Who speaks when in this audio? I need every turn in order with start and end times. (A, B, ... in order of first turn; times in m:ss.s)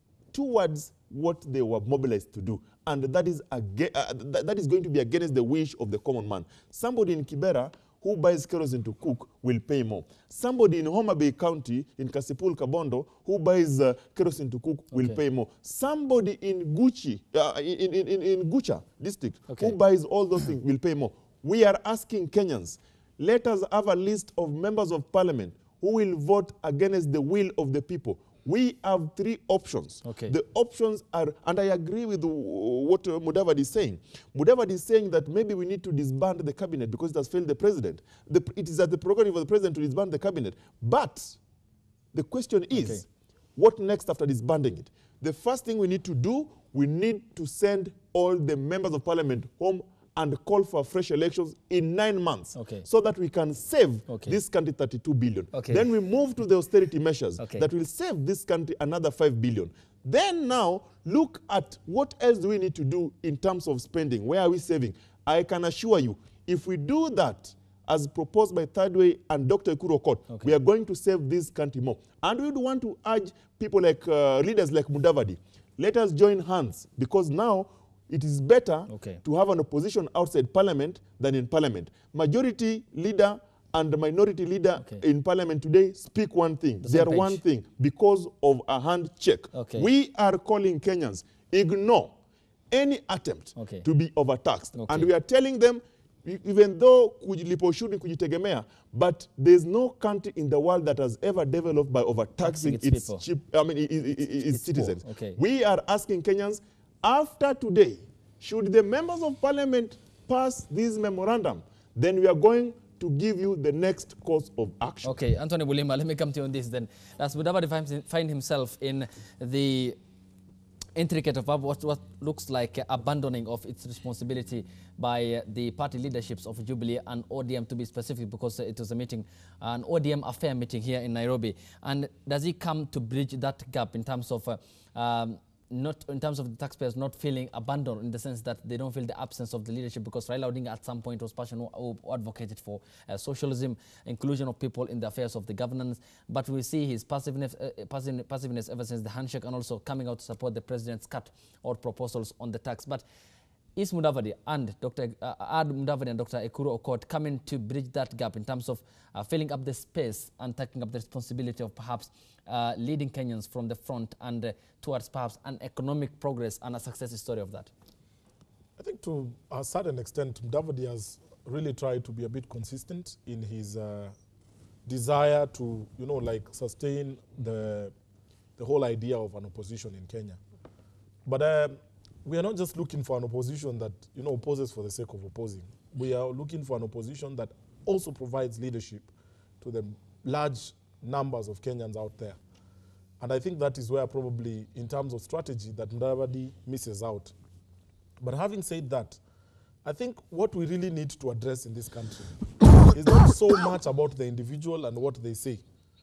0:00.3-0:41.4 A
0:14.9-0:15.2 B
0:19.5-0:19.8 B
0:30.0-0:30.4 B
0:42.1-0:43.0 A
0:42.7-0:43.0 B
0:43.6-1:32.2 A
0:52.5-0:52.9 B
0:54.1-0:54.4 B
0:55.5-0:55.9 B
0:57.4-0:57.7 B
1:18.9-1:19.2 B
1:24.8-1:25.0 B
1:26.8-1:27.4 B
1:29.5-1:29.9 B
1:32.7-1:55.1 A
1:33.6-1:33.8 B
1:34.7-1:35.1 B
1:42.4-1:43.2 B
1:44.4-1:45.4 B
1:55.0-2:00.0 B
2:01.0-2:33.0 B
2:33.8-2:47.7 B
2:48.8-2:54.1 C
2:54.8-2:57.9 C
2:58.6-3:00.4 C
3:01.2-3:12.4 C
3:13.2-3:17.3 C
3:18.2-3:19.2 C
3:19.8-3:22.3 C
3:23.0-3:25.6 C